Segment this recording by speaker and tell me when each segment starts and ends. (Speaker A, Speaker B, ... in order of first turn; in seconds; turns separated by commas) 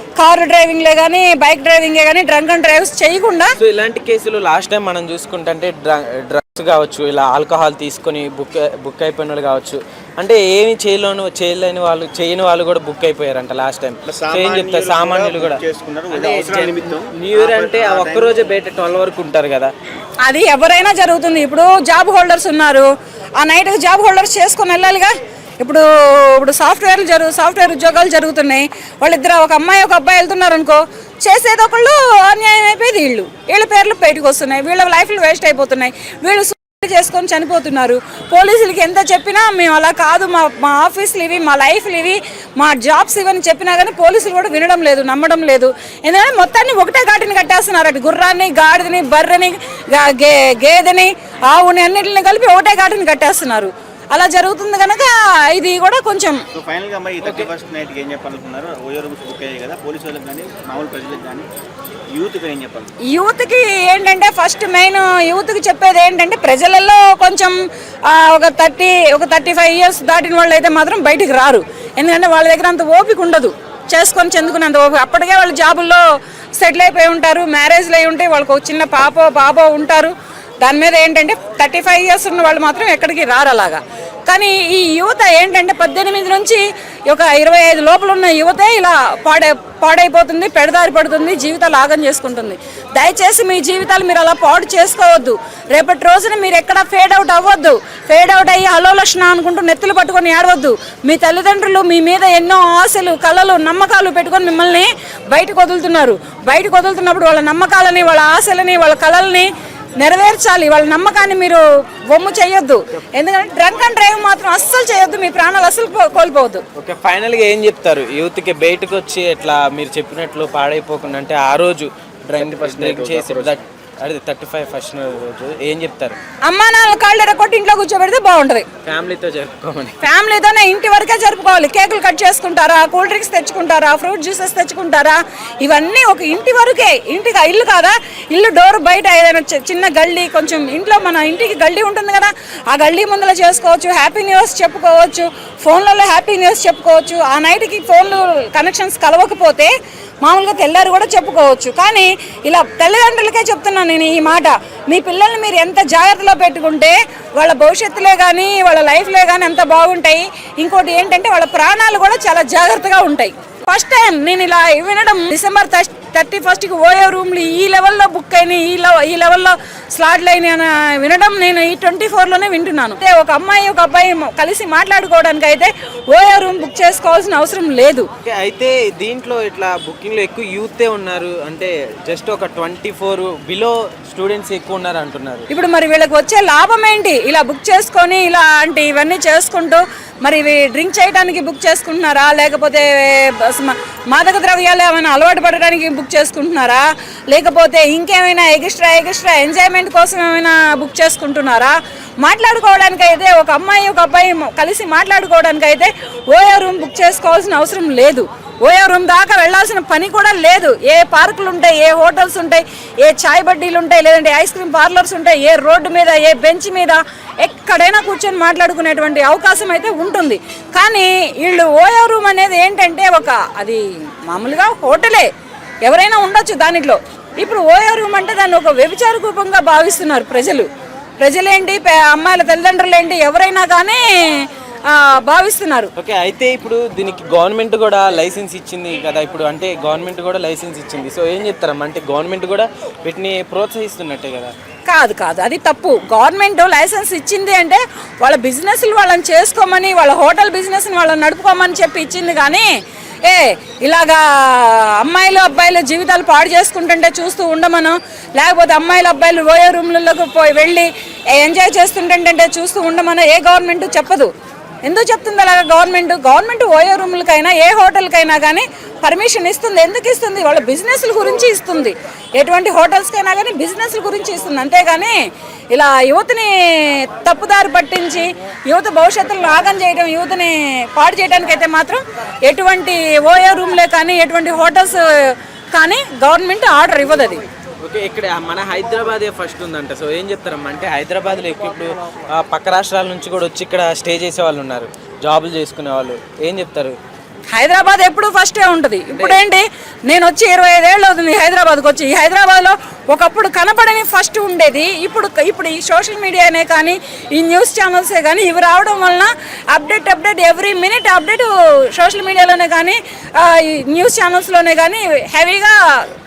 Speaker A: 0.2-3.6, Speaker B: 3.6-19.7, Speaker C: 14.1-18.3, Speaker A: 20.2-56.4, Speaker C: 56.5-61.5, Speaker B: 57.2-57.5, Speaker C: 62.1-62.9, Speaker A: 63.1-76.0, Speaker A: 76.6-116.6, Speaker B: 116.8-126.2, Speaker C: 122.4-123.6, Speaker A: 126.5-128.7, Speaker B: 128.8-130.0, Speaker A: 130.0-178.1, Speaker B: 178.2-185.5, Speaker A: 185.5-225.3, Speaker A: 225.8-230.7, Speaker A: 231.2-235.9, Speaker B: 236.0-244.5, Speaker A: 244.9-252.7, Speaker A: 253.2-264.3, Speaker A: 264.9-275.2, Speaker A: 275.7-287.4, Speaker B: 287.8-297.0, Speaker A: 297.5-316.1, Speaker B: 299.1-299.4